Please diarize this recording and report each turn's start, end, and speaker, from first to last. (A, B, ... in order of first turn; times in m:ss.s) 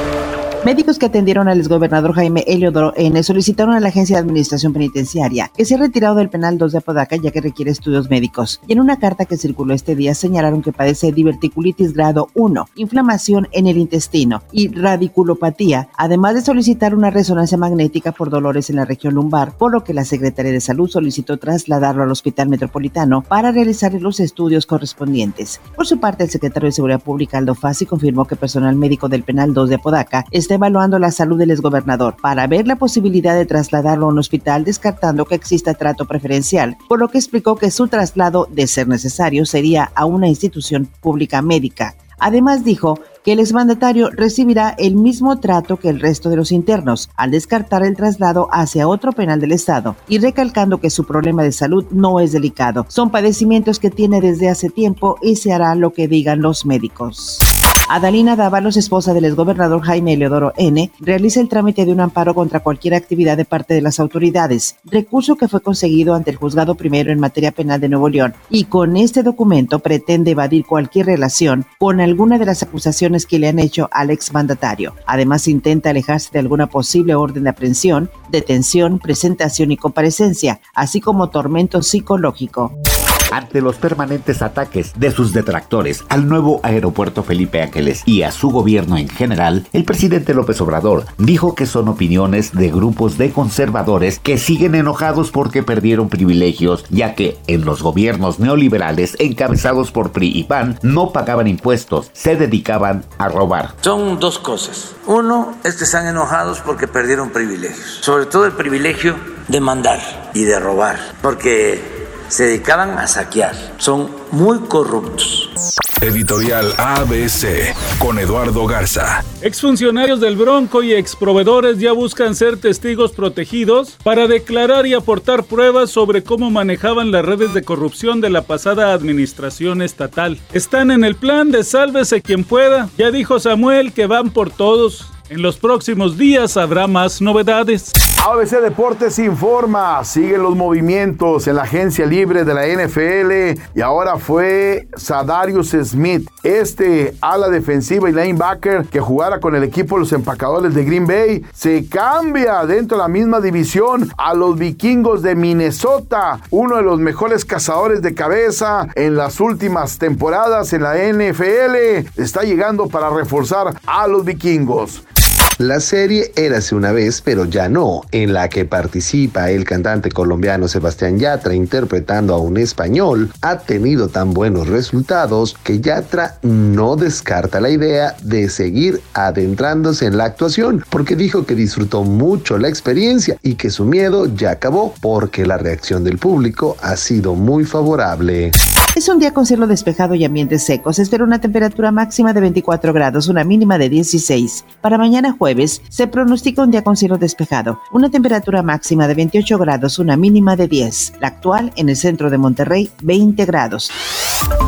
0:00.6-1:22.7 A
1:23.3-1:43.7 B
1:43.8-1:55.5 C
1:56.0-1:59.2 D
1:59.4-2:17.9 E
2:18.2-2:45.0 F
2:45.6-3:08.5 G
3:08.9-3:23.9 A